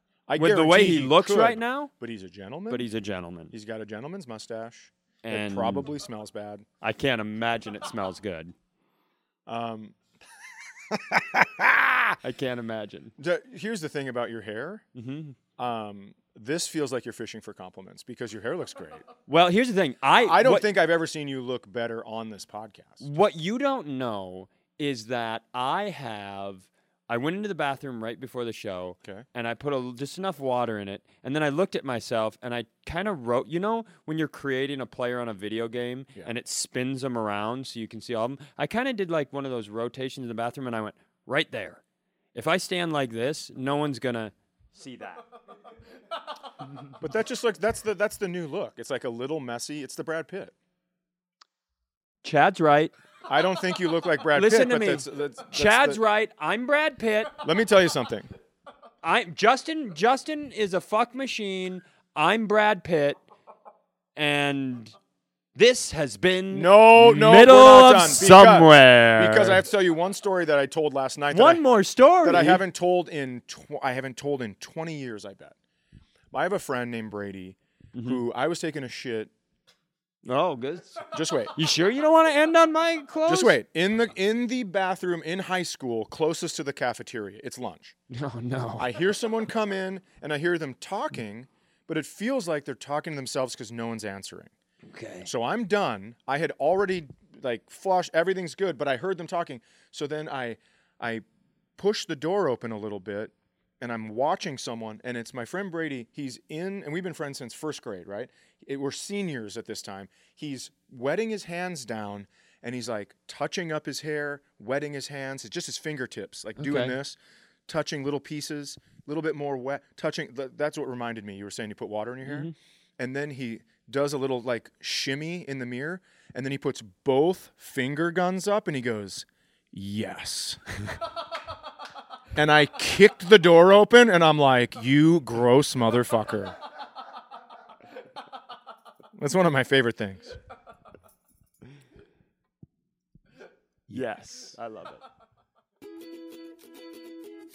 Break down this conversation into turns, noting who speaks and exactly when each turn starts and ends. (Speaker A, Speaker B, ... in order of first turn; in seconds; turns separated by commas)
Speaker A: 0.3-2.9, Speaker B: 0.4-1.9, Speaker B: 2.7-3.5, Speaker A: 3.5-6.7, Speaker B: 5.2-5.9, Speaker B: 6.8-8.5, Speaker A: 9.5-10.0, Speaker A: 10.9-12.2, Speaker B: 12.2-13.1, Speaker A: 13.2-14.8, Speaker B: 14.9-15.4, Speaker A: 15.6-19.1, Speaker B: 19.3-20.7, Speaker A: 20.2-23.0, Speaker B: 23.0-41.8, Speaker B: 42.4-45.2, Speaker A: 47.0-50.5, Speaker B: 52.2-52.9, Speaker A: 53.3-56.0, Speaker B: 54.4-57.4, Speaker A: 57.4-58.3, Speaker B: 59.0-63.2, Speaker B: 64.2-65.0, Speaker B: 65.5-69.6, Speaker A: 66.5-71.6, Speaker B: 71.3-72.6, Speaker A: 72.2-75.5, Speaker A: 76.3-79.3, Speaker B: 78.0-78.2, Speaker B: 80.3-83.6, Speaker A: 81.1-81.5, Speaker A: 83.3-88.0, Speaker B: 88.1-88.9, Speaker A: 88.8-94.5, Speaker B: 94.9-95.3, Speaker A: 95.2-101.2, Speaker A: 101.8-117.2, Speaker B: 116.6-116.9, Speaker A: 117.7-130.6, Speaker B: 122.2-122.5, Speaker A: 132.4-136.6, Speaker A: 139.2-140.4, Speaker B: 143.9-145.0